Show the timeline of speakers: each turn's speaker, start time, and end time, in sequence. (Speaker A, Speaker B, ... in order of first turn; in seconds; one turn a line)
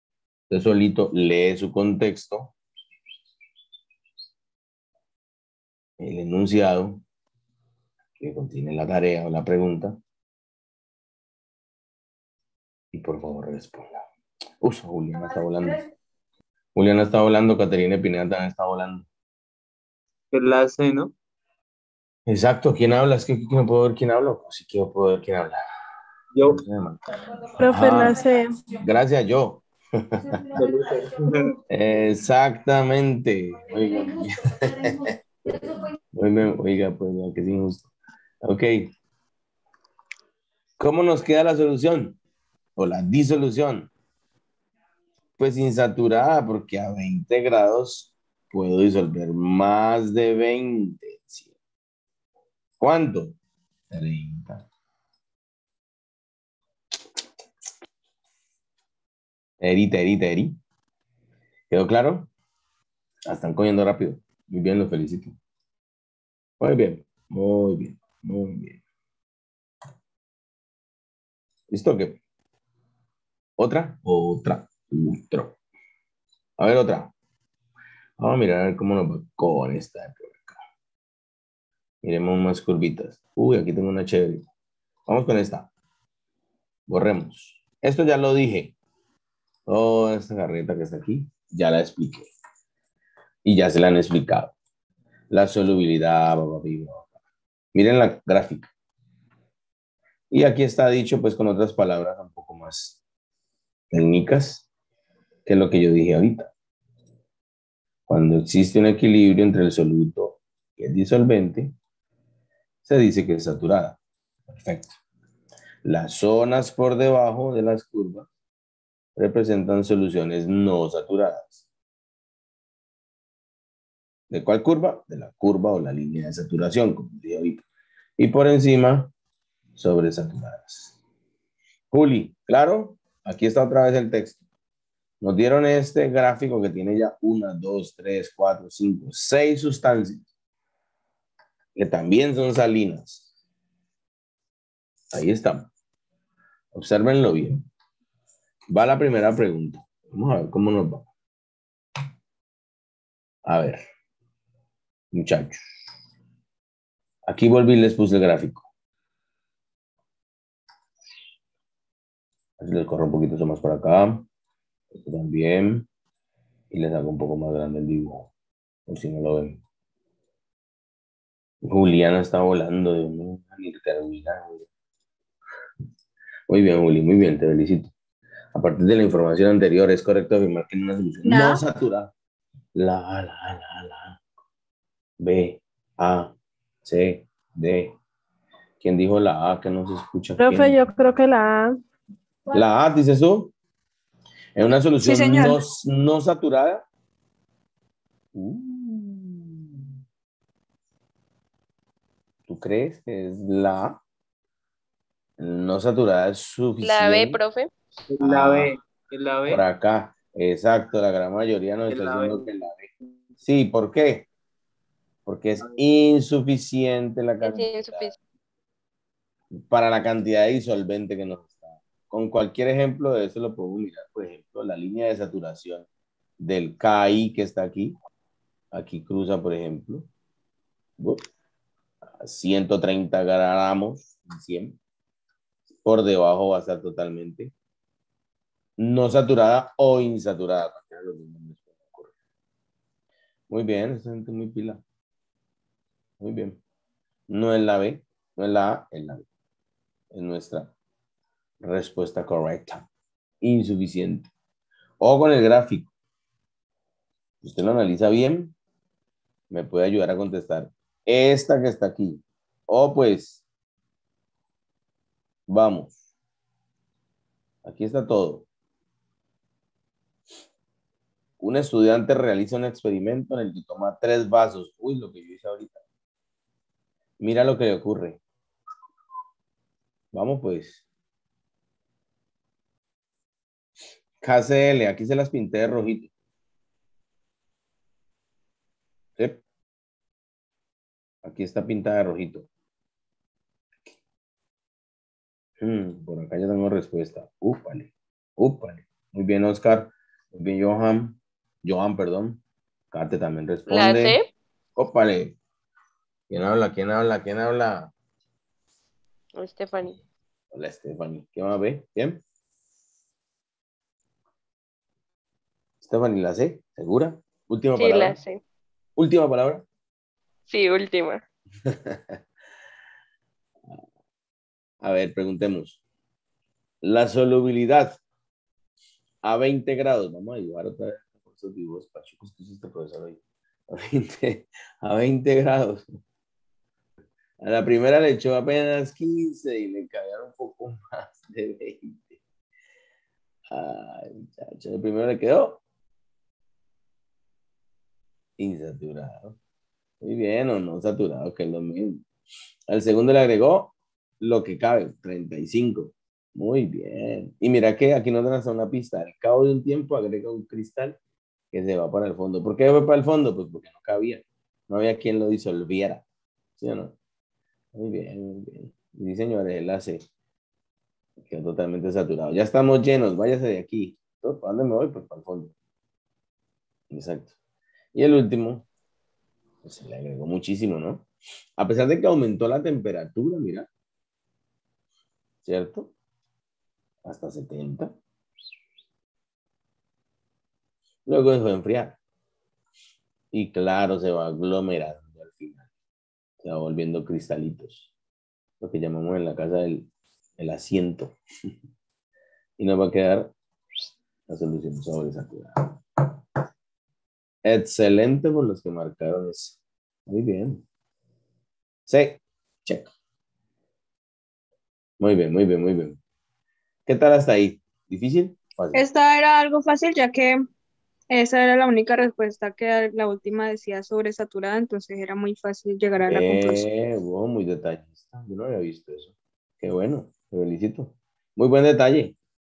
Speaker A: 0.5-2.5
Speaker A: 6.0-7.0
Speaker A: 8.2-10.0
Speaker A: 12.9-14.1
Speaker A: 14.6-15.8
Speaker A: 16.7-19.1
Speaker B: 20.3-21.1
Speaker A: 22.3-25.6
Speaker A: 26.5-27.0
Speaker C: 27.6-28.6
Speaker A: 27.6-28.2
Speaker A: 28.8-29.6
Speaker A: 30.1-30.4
Speaker B: 30.6-31.6
Speaker A: 31.7-37.9
Speaker A: 38.4-38.9
Speaker A: 40.8-42.2
Speaker A: 42.8-43.9
Speaker A: 45.4-51.5
Speaker A: 52.8-53.4
Speaker A: 53.9-54.7
Speaker A: 59.6-60.5
Speaker A: 61.7-62.3
Speaker A: 63.2-65.4
Speaker A: 66.6-68.8
Speaker A: 71.7-72.2
Speaker A: 73.6-75.6
Speaker A: 76.6-77.1
Speaker A: 78.2-80.6
Speaker A: 82.0-84.5
Speaker A: 85.1-85.7
Speaker A: 86.9-88.7
Speaker A: 89.7-92.3
Speaker A: 93.4-94.5
Speaker A: 95.3-97.1
Speaker A: 97.7-98.7
Speaker A: 100.3-103.0
Speaker A: 103.9-104.7
Speaker A: 105.5-106.5
Speaker A: 108.1-111.7
Speaker A: 112.8-114.0
Speaker A: 114.5-115.0
Speaker A: 115.8-118.3
Speaker A: 119.2-121.6
Speaker A: 124.3-127.6
Speaker A: 128.2-129.1
Speaker A: 129.8-131.0
Speaker A: 131.9-134.4
Speaker A: 135.2-140.3
Speaker A: 141.7-143.3
Speaker A: 145.1-145.7
Speaker A: 146.7-147.6
Speaker A: 148.7-151.1
Speaker A: 153.4-153.8
Speaker A: 155.1-155.6
Speaker A: 157.2-158.7
Speaker A: 162.6-164.2
Speaker A: 164.9-165.9
Speaker A: 166.7-168.3
Speaker A: 168.9-169.6
Speaker A: 171.6-174.7
Speaker A: 176.5-177.9
Speaker A: 178.5-182.1
Speaker D: 181.2-181.6
Speaker A: 182.8-184.2
Speaker A: 185.2-187.9
Speaker A: 188.8-190.7
Speaker C: 190.4-191.8
Speaker A: 192.5-193.5
Speaker A: 194.6-196.8
Speaker D: 195.0-195.6
Speaker A: 198.3-199.7
Speaker A: 202.5-204.0
Speaker A: 205.4-207.4
Speaker E: 206.8-207.7
Speaker B: 208.1-209.6
Speaker A: 208.2-208.7
Speaker A: 209.5-214.3
Speaker B: 211.9-212.5
Speaker A: 215.2-218.1
Speaker E: 217.4-218.2
Speaker A: 219.5-225.9
Speaker A: 226.4-227.9
Speaker A: 228.7-230.1
Speaker A: 231.0-231.2
Speaker A: 232.2-234.8
Speaker A: 235.8-237.5
Speaker A: 238.8-242.1
Speaker A: 243.5-244.8
Speaker A: 246.2-246.6
Speaker A: 247.3-249.2
Speaker A: 250.1-250.7
Speaker A: 251.6-252.9
Speaker A: 253.4-254.3
Speaker A: 255.0-255.9
Speaker A: 257.4-258.5
Speaker A: 259.5-263.4
Speaker A: 265.5-266.0
Speaker A: 267.6-268.5
Speaker A: 271.4-275.8
Speaker A: 277.2-278.2
Speaker A: 280.1-280.8
Speaker A: 284.2-286.1
Speaker A: 291.2-292.5
Speaker A: 295.6-302.4
Speaker A: 302.9-304.2
Speaker E: 303.7-304.3
Speaker A: 304.8-305.4
Speaker A: 306.3-307.9
Speaker E: 309.4-310.0
Speaker A: 310.5-312.2
Speaker A: 315.8-318.2
Speaker E: 317.7-318.4
Speaker A: 319.0-319.6
Speaker E: 320.5-321.2
Speaker A: 321.6-322.2
Speaker A: 324.8-325.8
Speaker A: 326.8-328.0
Speaker A: 329.2-335.9
Speaker A: 337.4-342.2
Speaker A: 343.5-345.6
Speaker A: 348.4-349.4
Speaker A: 350.0-352.1
Speaker A: 352.7-361.0
Speaker A: 361.5-366.0
Speaker A: 366.6-366.9
Speaker A: 367.7-370.1
Speaker A: 371.3-375.5
Speaker A: 376.9-377.4
Speaker A: 377.9-378.7
Speaker A: 379.6-381.1
Speaker A: 381.6-383.7
Speaker A: 385.4-385.9
Speaker A: 387.1-387.9
Speaker A: 391.1-392.0
Speaker A: 393.3-395.6
Speaker A: 396.4-397.9
Speaker A: 398.6-401.2
Speaker A: 402.6-403.3
Speaker A: 404.3-405.8
Speaker A: 407.4-410.6
Speaker A: 411.9-412.9
Speaker A: 415.0-416.0
Speaker A: 416.9-418.8
Speaker D: 418.7-420.4
Speaker D: 421.1-426.7
Speaker A: 426.0-432.2